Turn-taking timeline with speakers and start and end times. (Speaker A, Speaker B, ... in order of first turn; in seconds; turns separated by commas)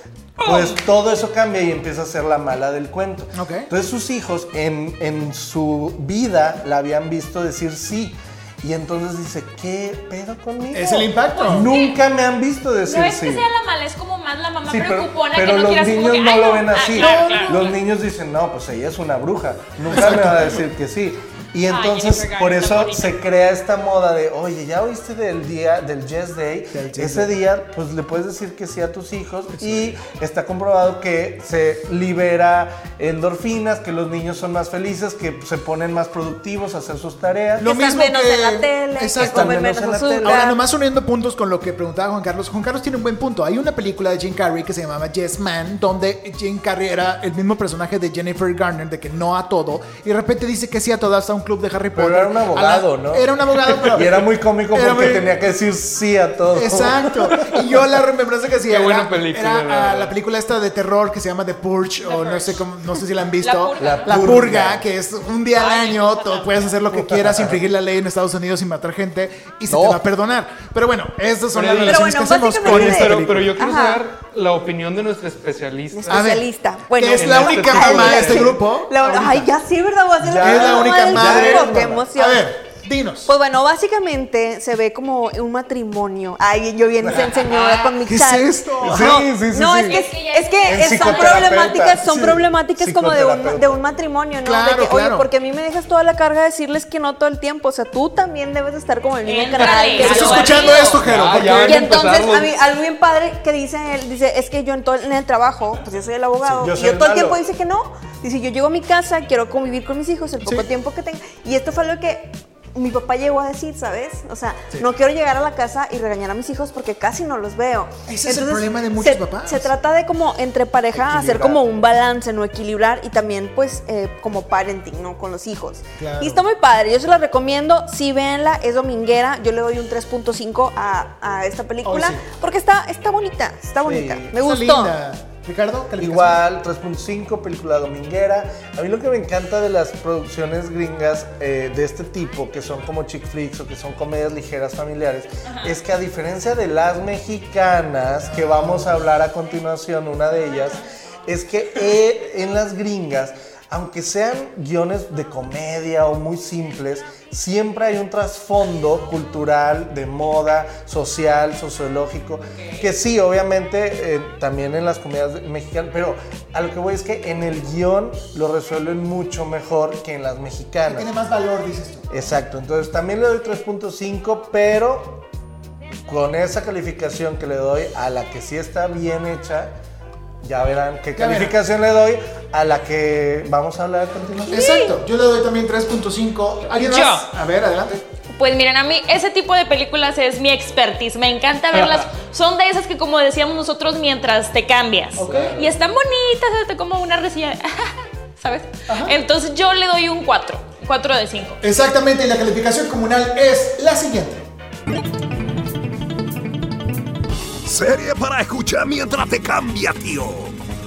Speaker A: 0.4-0.8, Speaker B: 0.4-13.4, Speaker C: 3.3-3.7, Speaker C: 10.7-11.7, Speaker A: 11.3-12.0, Speaker A: 12.8-17.8, Speaker B: 14.6-37.6, Speaker C: 16.9-17.6, Speaker C: 19.9-20.6, Speaker A: 21.7-23.1, Speaker C: 26.7-27.4, Speaker C: 29.6-30.0, Speaker C: 37.6-55.4, Speaker D: 37.6-40.6, Speaker B: 39.2-40.5, Speaker B: 51.9-57.5, Speaker C: 56.5-73.5, Speaker E: 58.7-60.1, Speaker A: 62.0-62.5, Speaker A: 63.4-64.4, Speaker B: 63.8-64.8, Speaker A: 65.5-66.8, Speaker B: 66.9-67.6, Speaker B: 69.7-70.0, Speaker E: 71.5-72.0, Speaker D: 71.8-74.0, Speaker E: 72.6-76.3, Speaker D: 75.9-82.5, Speaker C: 76.1-79.5, Speaker E: 77.1-78.4, Speaker B: 78.0-78.5, Speaker B: 80.2-82.1, Speaker C: 80.4-83.3, Speaker D: 83.2-100.8, Speaker B: 87.0-87.5, Speaker C: 87.5-89.2, Speaker B: 88.8-90.0, Speaker A: 89.8-91.6, Speaker B: 90.7-93.9, Speaker C: 94.4-95.2, Speaker A: 99.2-101.0, Speaker C: 100.0-101.9, Speaker E: 101.0-102.5, Speaker D: 101.6-134.9, Speaker B: 106.4-107.4, Speaker C: 110.4-110.7, Speaker C: 118.1-119.7, Speaker B: 120.9-121.8, Speaker C: 126.0-126.5, Speaker C: 131.8-132.2, Speaker B: 133.8-134.3, Speaker C: 134.3-136.4, Speaker B: 136.0-171.1, Speaker A: 145.4-145.7, Speaker C: 148.2-149.0, Speaker C: 170.8-172.1, Speaker B: 172.1-175.2, Speaker B: 176.0-179.7, Speaker B: 180.4-184.7, Speaker C: 181.1-181.6, Speaker C: 184.5-188.0, Speaker D: 184.6-184.9, Speaker A: 186.8-187.2, Speaker A: 188.3-201.6, Speaker C: 195.2-195.5, Speaker B: 195.2-195.7, Speaker C: 198.9-199.2, Speaker C: 201.6-204.4, Speaker F: 207.6-210.5